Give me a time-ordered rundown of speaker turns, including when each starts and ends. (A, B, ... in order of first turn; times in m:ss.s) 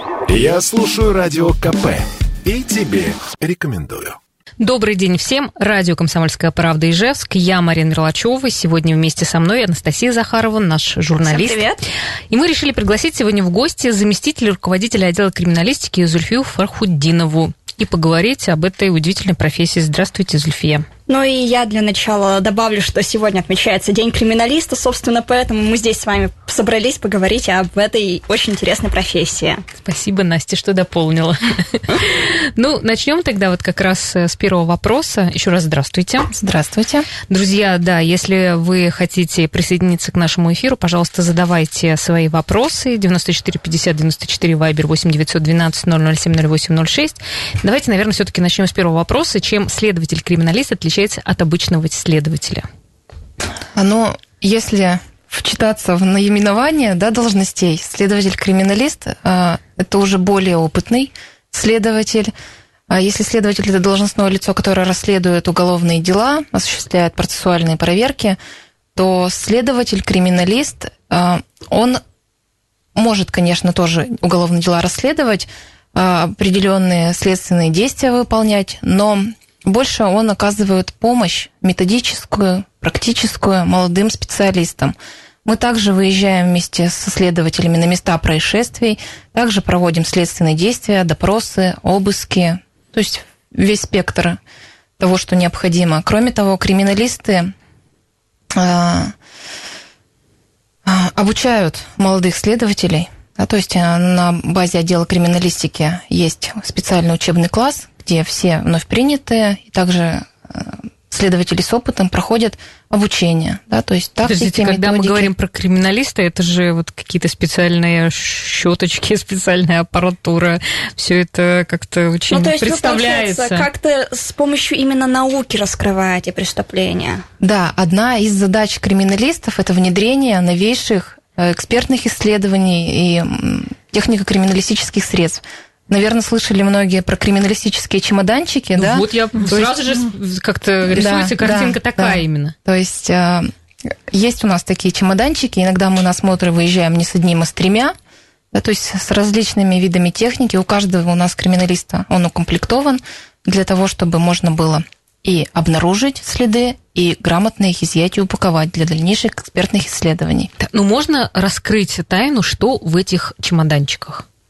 0:00.3-0:04.2 A
0:04.6-0:11.6 B
0:11.2-0:11.8 C
0:12.3-0:20.9 B
0:21.1-0:29.6 C
0:29.8-0:36.3 B
0:36.3-0:37.1 D
0:37.3-0:52.7 B
0:53.7-1:02.3 D
1:02.9-1:08.4 D
1:08.9-1:12.0 D
1:13.0-1:24.9 D
1:25.4-1:34.4 D
1:35.0-1:37.5 D
1:38.5-1:39.1 D
1:40.8-1:55.3 D
1:54.2-2:03.7 B
2:02.3-2:07.2 C
2:07.4-2:19.7 D
2:18.8-2:22.5 B
2:20.8-2:27.9 D
2:28.5-2:40.5 D
2:40.6-2:44.2 B